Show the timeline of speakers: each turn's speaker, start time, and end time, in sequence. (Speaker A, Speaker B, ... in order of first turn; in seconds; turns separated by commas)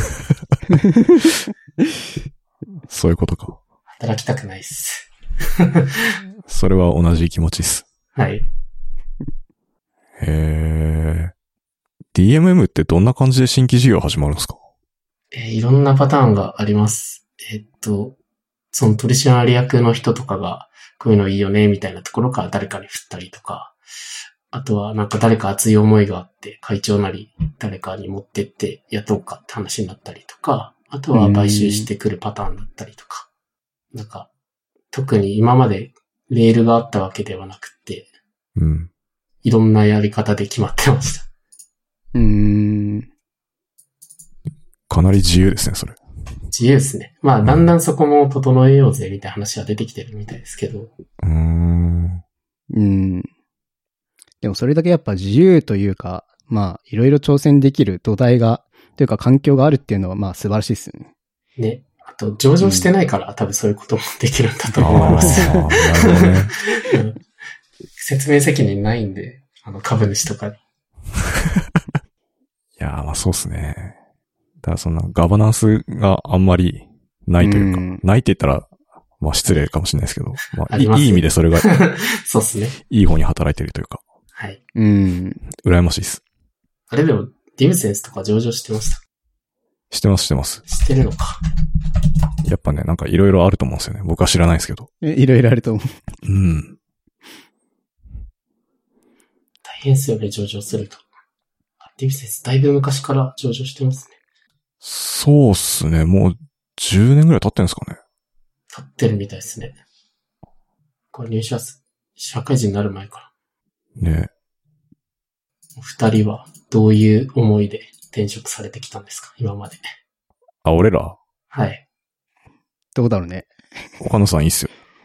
Speaker A: 2.9-3.6, Speaker B: 4.0-6.2, Speaker A: 6.5-7.9, Speaker B: 8.2-8.5, Speaker A: 10.2-11.3, Speaker A: 12.1-14.6, Speaker B: 15.3-18.2, Speaker B: 18.7-23.8, Speaker B: 24.5-33.3, Speaker C: 31.1-31.9, Speaker B: 33.9-34.3, Speaker B: 34.9-38.1, Speaker A: 38.6-38.9, Speaker B: 39.4-41.3, Speaker C: 42.1-43.1, Speaker A: 44.9-46.0, Speaker B: 46.5-50.9, Speaker A: 47.4-47.7, Speaker A: 51.2-52.2, Speaker C: 52.7-53.3, Speaker C: 54.4-61.1, Speaker B: 61.6-67.2, Speaker C: 62.6-62.9, Speaker C: 64.8-65.6, Speaker A: 64.8-66.5, Speaker B: 68.0-70.6, Speaker A: 72.8-74.0, Speaker A: 74.6-81.7, Speaker C: 77.4-78.0, Speaker B: 80.7-82.8, Speaker A: 82.9-84.0, Speaker B: 84.3-84.6, Speaker C: 84.8-85.4, Speaker A: 85.6-86.2, Speaker B: 86.9-89.0, Speaker A: 89.9-90.6, Speaker B: 90.7-91.4, Speaker A: 92.5-94.9, Speaker C: 95.0-96.0, Speaker A: 96.2-96.8, Speaker B: 99.6-101.0, Speaker B: 101.8-104.2, Speaker A: 104.8-108.0, Speaker B: 108.7-109.8, Speaker B: 111.1-113.3, Speaker A: 114.0-114.3, Speaker B: 115.8-119.8, Speaker A: 120.6-121.2, Speaker B: 121.5-121.8, Speaker C: 123.0-123.5, Speaker A: 124.0-124.7